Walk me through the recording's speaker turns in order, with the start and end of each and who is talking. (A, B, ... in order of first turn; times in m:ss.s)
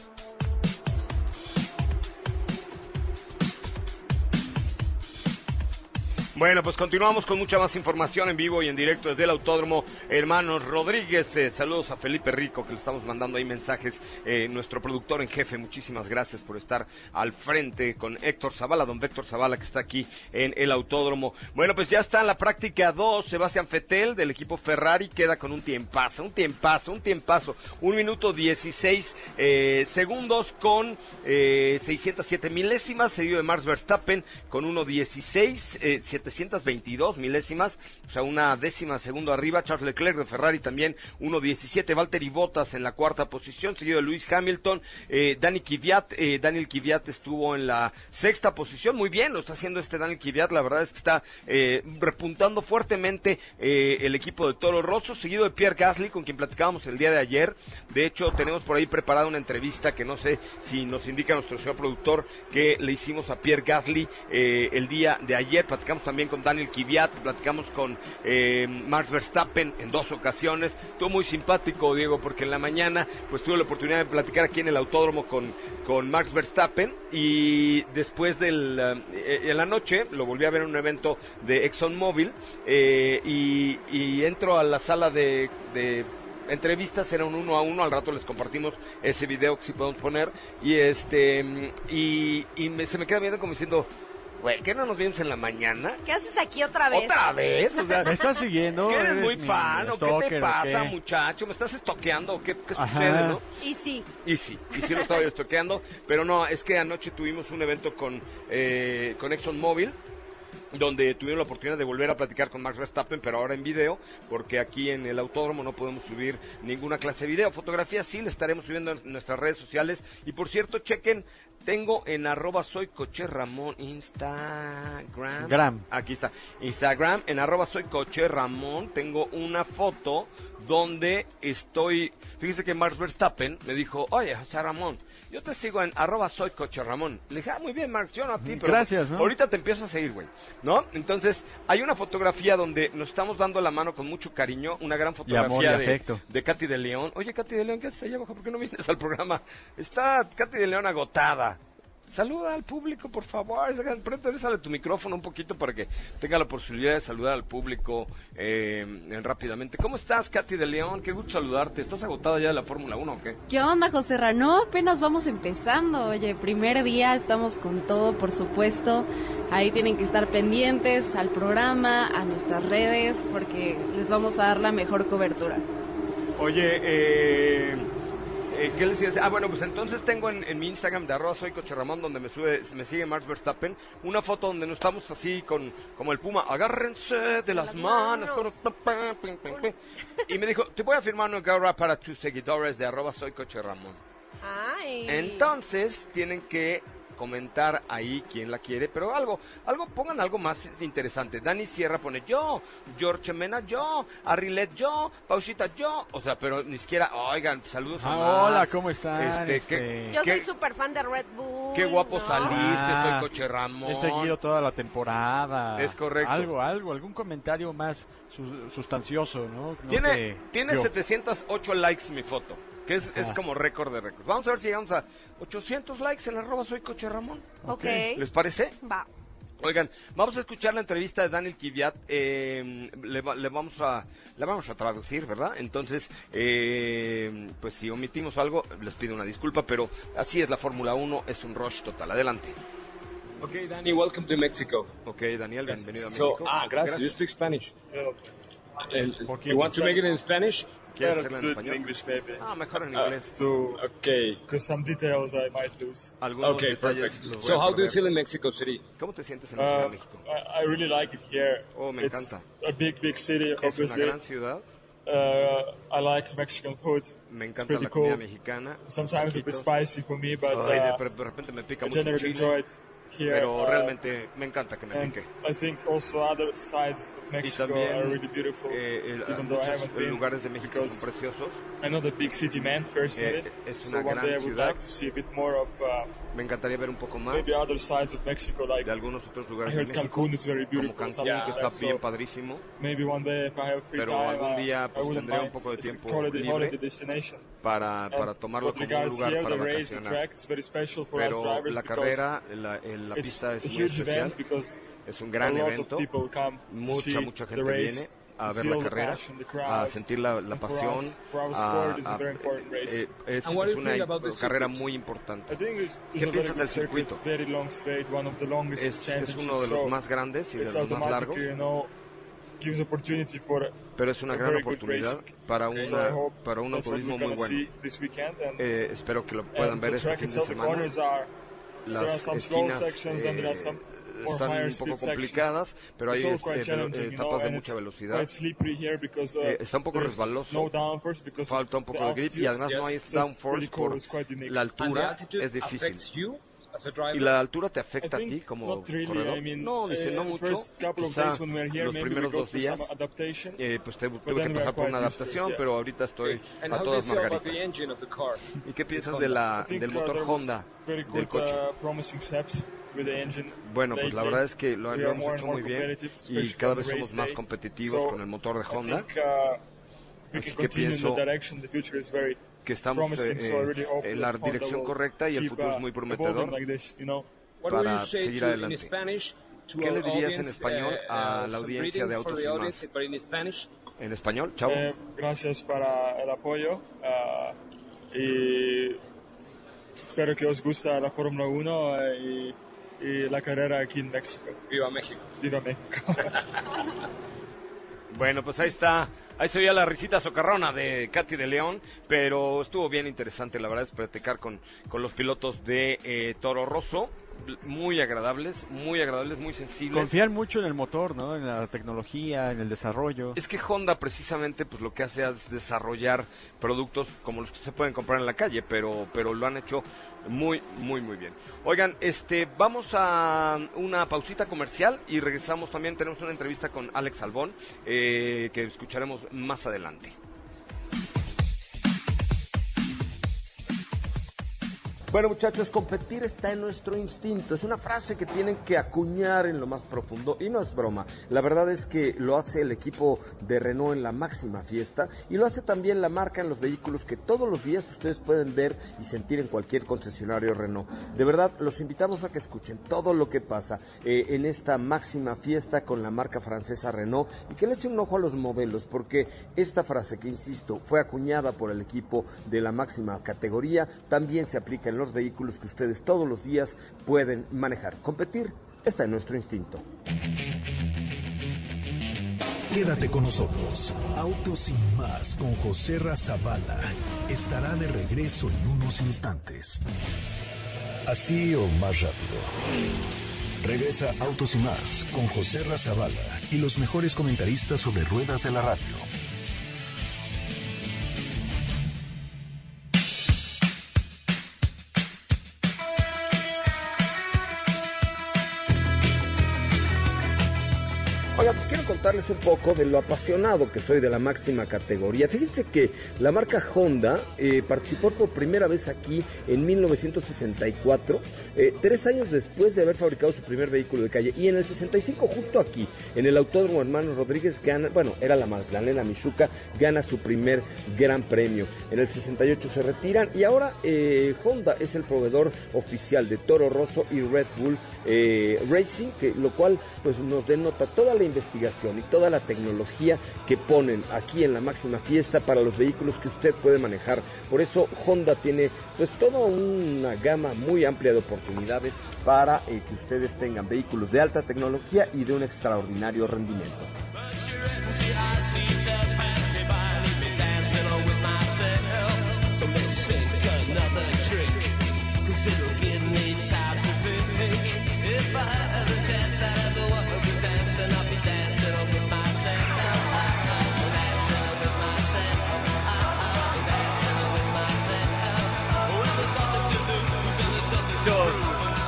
0:06.3-1:33.9 A
1:34.4-1:36.0 A
1:36.0-1:38.3 B
1:36.9-1:38.1 A
1:38.0-1:40.9 C
1:38.8-1:43.4 A
1:42.8-1:43.4 C
1:43.6-1:44.1 B
1:44.2-1:50.0 A
1:44.8-1:45.1 B
1:50.7-2:31.6 A
2:05.4-2:05.8 C
2:18.4-2:19.3 C
2:25.2-2:26.2 C
2:32.1-2:43.4 A
2:43.5-2:55.6 D
2:56.4-2:57.9 A
2:58.5-3:09.7 A
3:07.5-3:08.5 B
3:10.2-3:14.0 A
3:14.4-3:15.5 B
3:15.0-3:30.5 A
3:28.0-3:30.2 C
3:30.1-3:32.6 B
3:31.7-3:34.3 A
3:32.4-3:33.3 C
3:33.8-3:40.9 C
3:35.8-3:36.5 A
3:39.9-3:48.8 A
3:47.6-3:48.0 C
3:47.6-3:48.2 B
3:48.8-3:49.1 B
3:49.6-4:02.6 A
4:03.4-4:04.9 E
4:05.0-4:07.2 A
4:05.7-4:07.7 E
4:07.9-4:08.5 F
4:08.9-4:10.7 E
4:09.3-4:09.7 C
4:09.5-4:10.1 F
4:10.9-4:13.3 A
4:11.0-4:12.4 F
4:13.3-4:13.8 F
4:13.8-4:14.4 E
4:14.4-4:16.2 F
4:16.2-4:18.0 A
4:16.4-4:18.8 E
4:19.0-4:20.2 A
4:19.6-4:24.2 F
4:21.7-4:22.4 A
4:23.6-4:24.6 A
4:25.0-4:28.2 F
4:27.3-4:29.7 A
4:28.8-4:31.0 F
4:30.5-4:32.6 A
4:31.8-4:34.0 F
4:33.2-4:35.3 A
4:34.9-4:41.0 F
4:37.4-4:41.6 A
4:41.8-4:46.1 F
4:43.1-4:44.8 A
4:46.3-4:47.6 A
4:47.3-4:48.9 F
4:48.8-4:52.6 A
4:49.6-4:52.0 F
4:51.2-4:52.0 E
4:52.8-4:57.5 F
4:53.9-4:56.8 A
4:57.6-5:00.2 A
4:58.1-5:02.2 F
5:01.1-5:04.4 A
5:03.1-5:04.8 F
5:05.0-5:06.1 A
5:05.4-5:13.0 F
5:06.7-5:15.6 A
5:13.4-5:14.8 E
5:15.5-5:20.0 F
5:16.2-5:17.2 A
5:18.8-5:21.4 A
5:20.6-5:21.9 F
5:22.6-5:23.8 F
5:24.0-5:27.6 A
5:24.3-5:28.7 F
5:28.6-5:30.9 A
5:29.5-5:31.3 F
5:31.8-5:35.5 F
5:31.8-5:38.3 A
5:36.1-5:44.7 F
5:39.4-5:40.7 A
5:41.4-5:46.1 A
5:42.6-5:42.9 E
5:44.8-5:47.4 E
5:47.1-5:52.9 A
5:48.0-5:53.6 F
5:53.6-5:57.6 A
5:54.2-5:55.6 F
5:56.2-5:59.4 E
5:58.6-6:01.6 A
5:59.5-6:09.6 F
6:03.6-6:09.1 A
6:10.3-6:12.4 F
6:10.3-6:11.2 A
6:12.6-6:16.6 A
6:12.9-6:17.3 F
6:17.6-6:23.7 E
6:17.7-6:18.9 A
6:19.8-6:22.8 A
6:24.0-6:24.9 A
6:24.6-6:27.6 F
6:28.1-6:29.0 F
6:30.0-6:34.6 F
6:34.7-6:35.3 E
6:35.4-6:36.4 F
6:38.1-6:50.1 A
6:49.9-6:53.4 C
6:53.4-7:10.2 A
7:15.1-7:49.8 A
7:52.7-7:59.8 G
8:01.0-8:02.5 G
8:03.6-8:09.1 G
8:21.3-9:06.9 A
9:07.4-9:31.4 E